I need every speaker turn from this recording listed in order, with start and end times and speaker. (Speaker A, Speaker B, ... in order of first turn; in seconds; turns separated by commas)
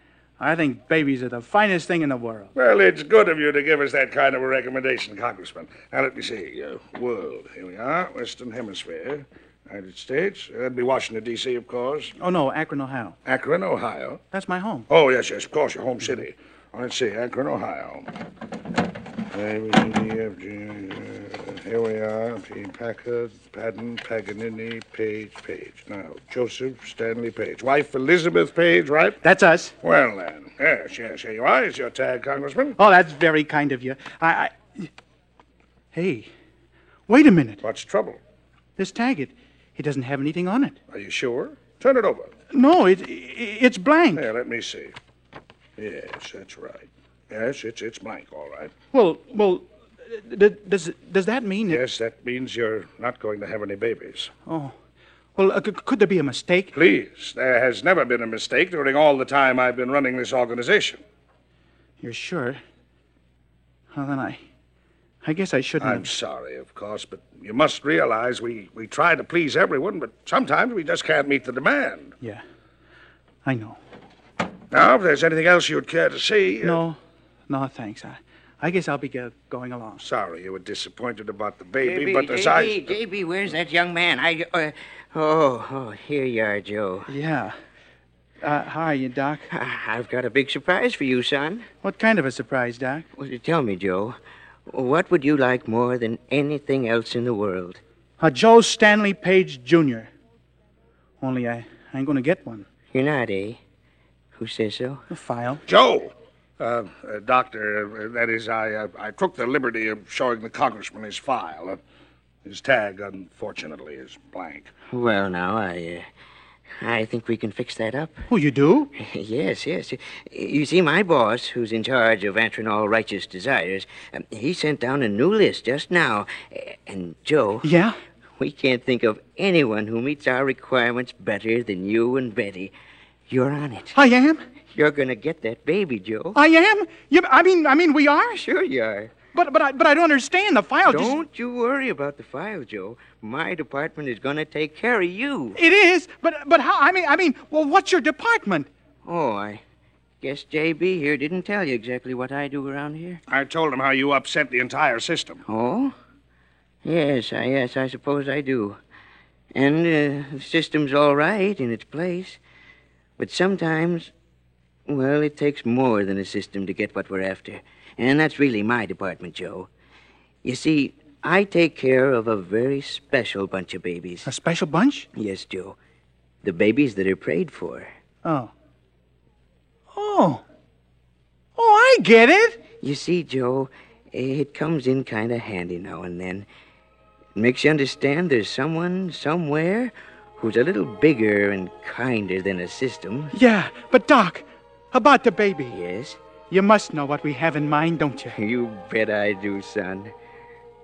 Speaker A: 0.4-2.5, Speaker B: 2.5-12.1, Speaker A: 12.2-13.2, Speaker B: 13.2-14.2, Speaker A: 14.3-14.9, Speaker B: 14.9-18.1, Speaker B: 19.3-29.2, Speaker A: 29.2-29.8, Speaker B: 29.8-32.8, Speaker A: 32.8-34.9, Speaker A: 35.9-36.3, Speaker A: 37.1-37.6, Speaker B: 37.6-38.2, Speaker A: 38.8-40.8, Speaker B: 40.9-42.3, Speaker A: 42.5-44.2, Speaker B: 44.1-44.9, Speaker B: 45.8-48.7, Speaker A: 48.9-51.8, Speaker B: 51.7-54.3, Speaker A: 54.5-54.7, Speaker A: 55.4-56.7, Speaker B: 56.7-61.0, Speaker A: 62.0-62.6, Speaker A: 63.9-64.4, Speaker A: 65.2-66.1, Speaker B: 65.8-72.1, Speaker A: 73.4-73.8, Speaker B: 74.7-76.8, Speaker A: 76.6-77.0, Speaker A: 77.5-80.0, Speaker B: 80.0-83.0, Speaker C: 81.8-87.1, Speaker A: 87.1-87.5, Speaker A: 88.4-89.5, Speaker C: 89.5-91.7, Speaker A: 91.8-93.0, Speaker C: 93.2-97.8, Speaker A: 98.2-100.1, Speaker A: 101.2-102.7, Speaker C: 102.9-103.6, Speaker C: 104.3-105.0, Speaker A: 105.1-105.6, Speaker B: 105.7-111.8, Speaker B: 112.4-114.7, Speaker C: 114.9-116.1, Speaker C: 116.8-118.2, Speaker A: 118.3-118.9, Speaker C: 119.0-127.7, Speaker A: 127.6-128.0, Speaker C: 128.4-132.7, Speaker C: 133.3-133.9, Speaker A: 133.9-134.4, Speaker C: 134.7-136.4, Speaker A: 136.3-138.4, Speaker C: 138.3-139.1, Speaker A: 139.3-141.2, Speaker C: 140.9-145.6, Speaker A: 145.6-148.7, Speaker C: 149.0-149.6, Speaker C: 150.2-153.2, Speaker B: 153.3-155.4, Speaker C: 155.4-155.9, Speaker C: 156.8-158.8, Speaker C: 159.5-162.4, Speaker C: 163.2-164.1, Speaker C: 164.9-169.7, Speaker C: 170.4-174.3, Speaker A: 174.2-175.1, Speaker C: 175.1-175.8, Speaker C: 176.4-177.9, Speaker A: 178.2-178.5, Speaker A: 179.9-180.4, Speaker A: 181.6-182.6, Speaker C: 182.8-186.5, Speaker C: 187.3-193.3, Speaker A: 193.3-195.8, Speaker C: 195.7-196.2, Speaker A: 196.5-198.4, Speaker C: 198.3-200.1